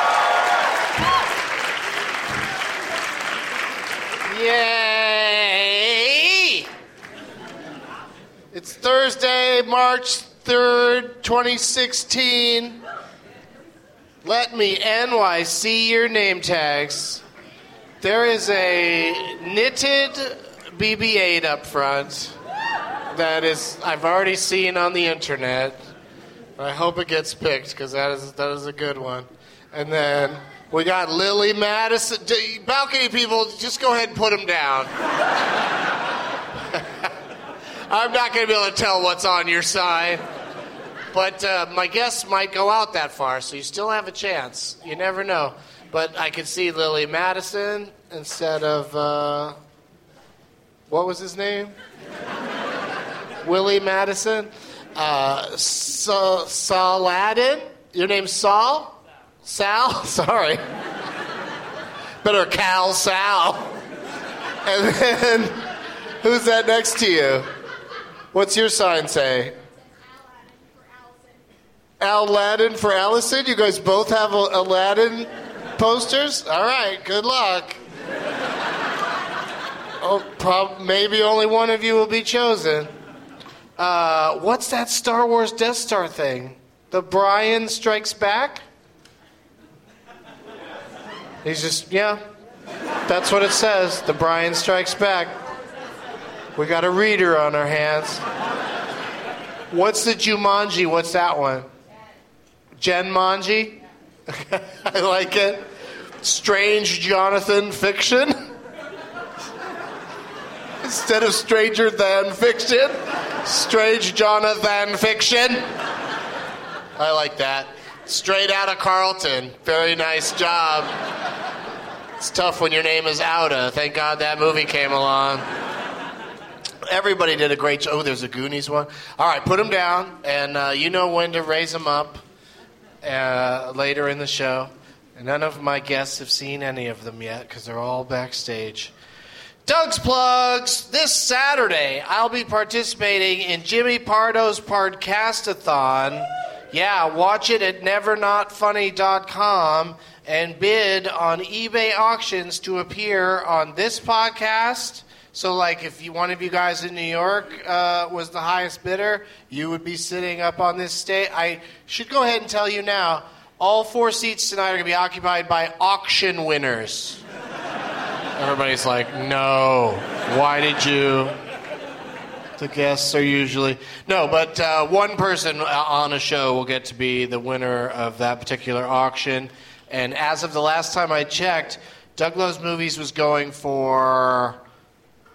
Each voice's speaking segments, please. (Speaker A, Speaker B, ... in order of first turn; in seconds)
Speaker A: 4.3-6.7, 8.5-12.8, 14.2-17.2, 18.0-22.4, 23.1-25.8, 26.6-34.9, 36.7-37.1, 37.9-40.2, 41.1-49.6, 50.9-51.8, 53.4-60.6, 62.2-63.8, 64.7-65.6, 66.2-67.5, 68.3-69.5, 72.0-77.8, 80.0-82.9, 83.8-88.6, 91.4-92.2, 93.1-95.4, 96.6-98.2, 99.7-101.7, 102.8-105.7, 106.2-108.4, 110.8-115.7, 117.0-120.9, 122.2-125.5, 126.9-132.2, 133.0-138.9, 139.7-167.2, 168.4-171.3, 172.6-184.6